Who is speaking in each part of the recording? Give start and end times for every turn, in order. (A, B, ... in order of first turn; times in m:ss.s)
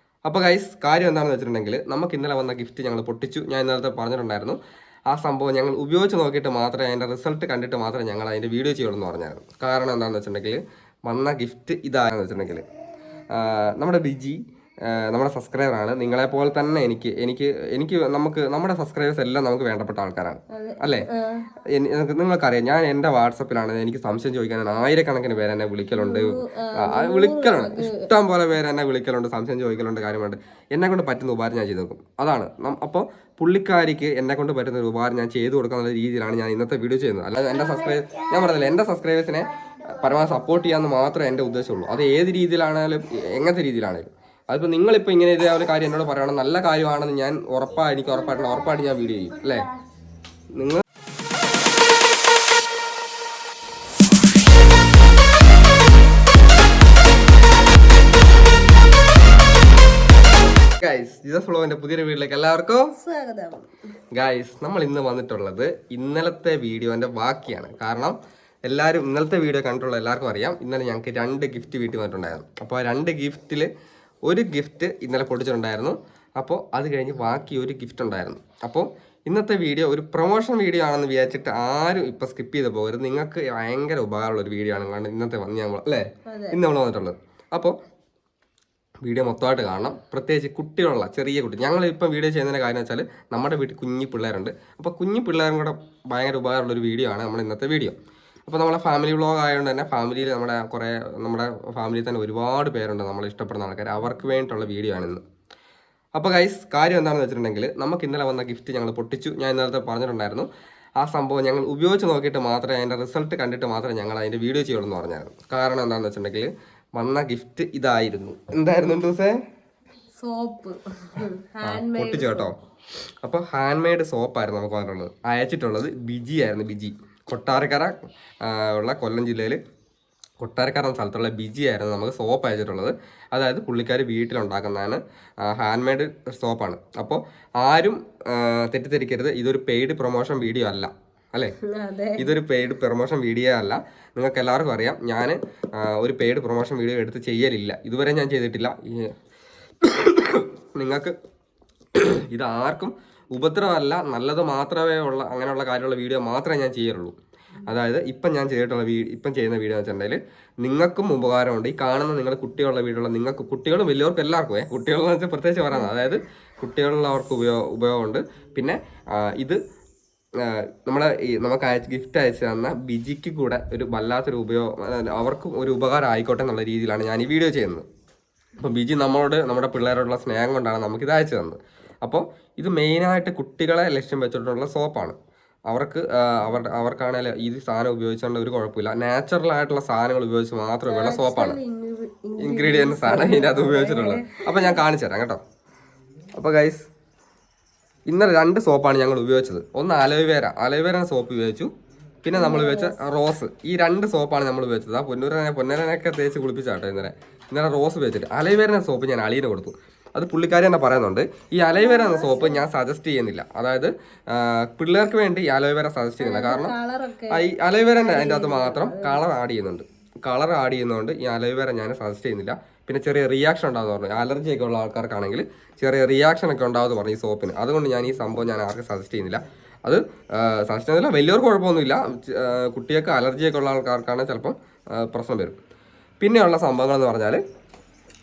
0:00.2-0:04.6 A
0:05.1-0:12.6 A
0:13.3-0:21.1 A
0:20.5-0:21.5 B
0:21.7-0:49.7 A
0:26.0-0:28.1 B
0:50.6-0:50.8 A
1:00.8-1:02.9 A
1:02.9-1:03.7 B
1:04.1-1:13.7 A
1:14.3-1:27.8 A
1:26.3-1:26.6 B
1:29.0-1:45.2 A
1:46.2-1:50.5 A
1:51.0-1:59.4 A
2:00.2-2:02.5 B
2:01.6-2:02.6 A
2:03.2-2:09.6 A
2:10.4-2:21.6 A
2:21.7-2:22.3 B
2:22.2-2:29.1 A
2:29.8-2:31.2 A
2:32.0-2:37.2 A
2:37.7-2:49.6 A
2:50.4-2:57.8 A
2:58.6-3:05.2 A
3:05.7-3:11.6 A
3:10.9-3:14.8 B
3:12.4-3:15.4 A
3:16.4-3:16.9 A
3:18.1-3:21.7 A
3:22.2-3:36.7 A
3:22.3-3:23.0 B
3:31.8-3:32.6 B
3:36.2-3:37.4 B
3:37.3-3:55.6 A
3:38.0-3:39.2 B
3:56.2-3:57.4 A